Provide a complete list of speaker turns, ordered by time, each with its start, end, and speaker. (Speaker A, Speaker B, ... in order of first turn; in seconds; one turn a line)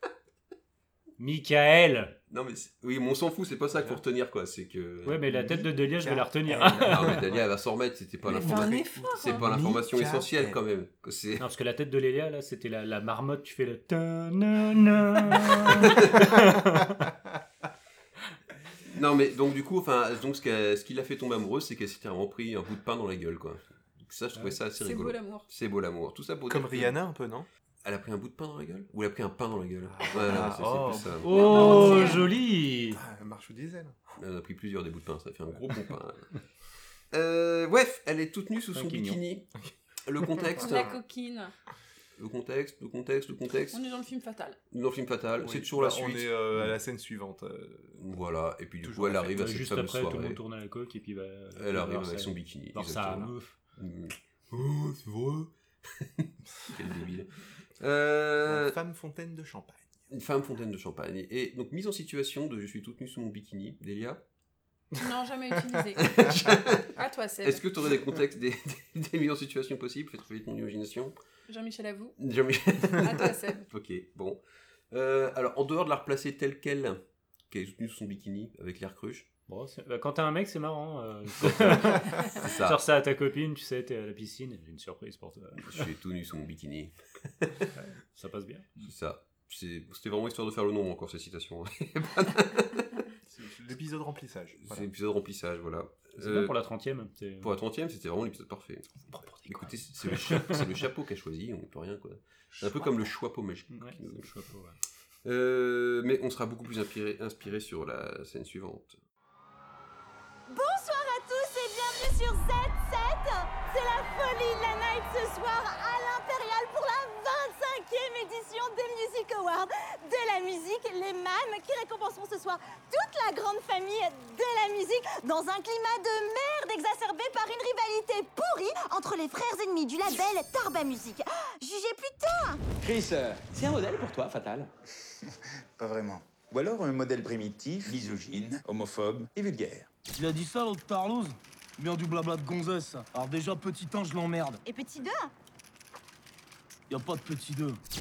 Speaker A: 1.2-2.1
Speaker B: 2.3-5.2
Speaker C: 3.7-4.0
Speaker A: 5.0-7.2
Speaker C: 5.3-7.4
Speaker B: 6.8-11.4
Speaker D: 8.3-9.4
Speaker C: 8.3-10.6
Speaker A: 11.4-17.0
Speaker B: 15.8-16.2
Speaker B: 18.9-27.0
Speaker D: 24.8-25.5
Speaker C: 26.5-27.5
Speaker B: 27.8-32.1
Speaker C: 29.8-32.2
Speaker A: 31.2-33.0
Speaker D: 31.3-32.2
Speaker C: 32.9-34.0
Speaker B: 34.2-36.3
Speaker B: 37.1-39.5
Speaker A: 38.7-39.2
Speaker B: 40.0-41.0
Speaker C: 40.4-40.9
Speaker D: 40.6-41.5
Speaker B: 42.2-43.8
Speaker D: 43.7-44.6
Speaker B: 44.7-46.8
Speaker C: 45.4-48.0
Speaker B: 48.0-50.4
Speaker C: 48.8-49.4
Speaker A: 49.3-53.5
Speaker B: 51.5-58.7
Speaker C: 58.5-60.0
Speaker B: 60.1-64.2
Speaker D: 64.9-66.4
Speaker B: 66.0-66.9
Speaker D: 66.9-67.6
Speaker B: 67.4-71.1
Speaker D: 71.5-72.2
Speaker B: 72.2-74.4
Speaker D: 73.0-73.7
Speaker B: 74.9-79.3
Speaker A: 79.5-85.9
Speaker B: 81.4-82.8
Speaker B: 85.6-87.7
Speaker A: 87.8-88.7
Speaker B: 88.8-92.9
Speaker C: 93.3-94.9
Speaker B: 94.6-96.5
Speaker A: 96.2-97.5
Speaker B: 97.4-98.9
Speaker A: 99.1-100.7
Speaker B: 99.5-104.3
Speaker A: 103.7-104.8
Speaker B: 105.2-109.0
Speaker E: 110.5-132.6
Speaker F: 132.8-134.7
Speaker F: 135.8-139.9
Speaker G: 140.1-144.6
Speaker E: 144.6-145.3
Speaker G: 146.9-147.8